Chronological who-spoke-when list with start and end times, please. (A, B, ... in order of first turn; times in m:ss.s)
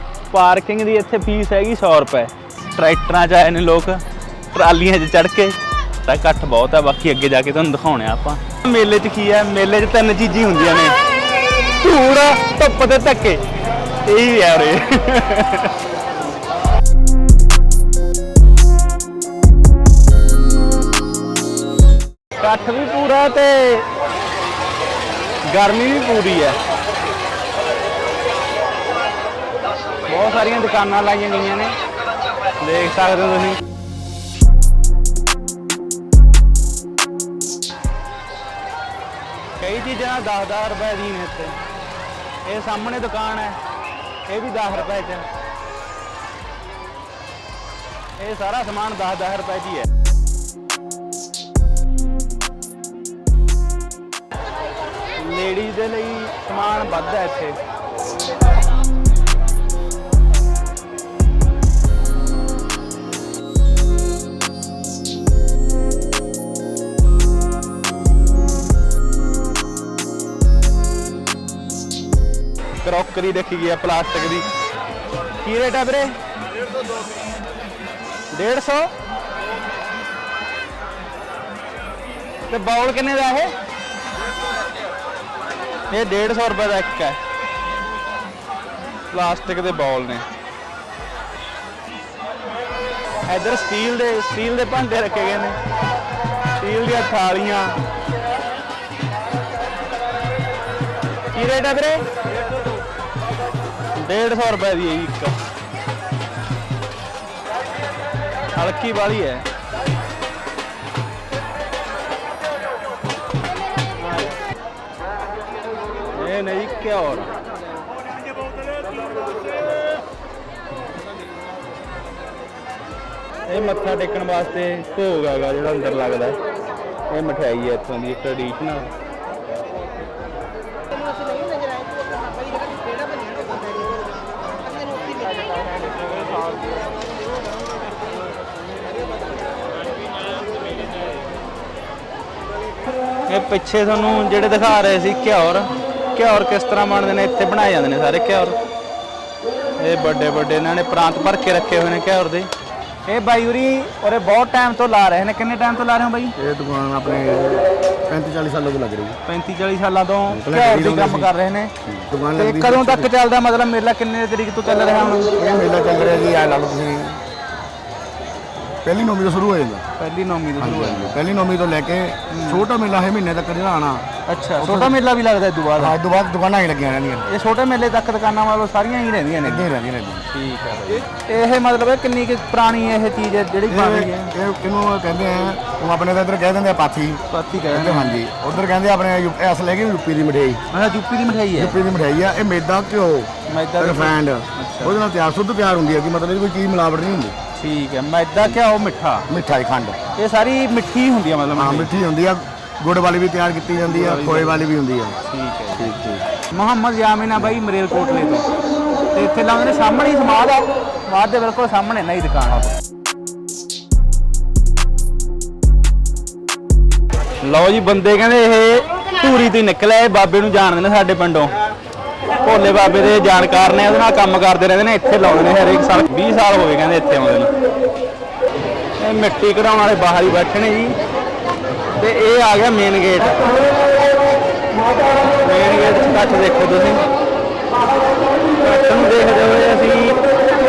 0:00.3-0:11.0 A
0:11.8-0:13.4 A
0:14.0-0:15.7 A
0:22.4-0:23.9 A
0:25.4-0:26.6 A
0:30.0-0:31.8 A
0:32.6-0:33.6 A
0:39.6-0:41.6 A
0:42.4-0:43.6 A
0:44.3-0:45.2 A
0:48.2-0:49.9 A
0:55.2-0:57.6 A
1:12.8-1:14.5 A
1:15.4-1:16.1 A
1:18.3-1:18.9 A
1:22.5-1:23.5 A
1:25.9-1:27.2 A
1:29.1-1:30.2 A
1:33.2-1:35.6 A
1:36.6-1:37.8 A
1:41.3-1:42.1 A
1:44.0-1:45.4 A
1:48.6-1:49.4 A
1:56.1-1:57.3 A
2:03.5-2:06.4 A
2:07.1-2:08.9 A
2:23.3-2:28.6 A
2:29.8-2:32.5 A
2:33.0-2:36.3 A
2:36.4-2:39.2 B
2:39.2-2:41.7 A
2:40.3-2:41.3 B
2:41.8-2:43.1 B
2:42.4-2:45.3 A
2:45.3-2:47.2 B
2:48.8-2:49.8 B
2:50.0-2:51.2 A
2:50.6-2:54.0 B
2:52.3-2:52.6 A
2:54.3-2:56.0 A
2:54.6-2:55.0 B
2:55.8-2:57.3 B
2:57.3-2:59.7 A
2:59.4-3:00.2 B
3:00.3-3:04.3 A
3:03.7-3:10.6 B
3:07.3-3:08.2 A
3:10.7-3:11.8 A
3:11.5-3:17.3 B
3:13.5-3:15.0 A
3:17.6-3:19.2 A
3:19.3-3:20.0 B
3:20.2-3:21.9 A
3:21.5-3:25.2 B
3:23.9-3:24.6 A
3:25.2-3:25.9 A
3:25.7-3:26.2 B
3:26.5-3:28.5 A
3:29.1-3:32.8 A
3:37.4-3:41.5 A
3:42.4-3:47.5 A
3:49.0-3:51.0 A
3:51.9-3:53.7 A
3:55.3-3:57.0 A
3:58.6-4:00.2 A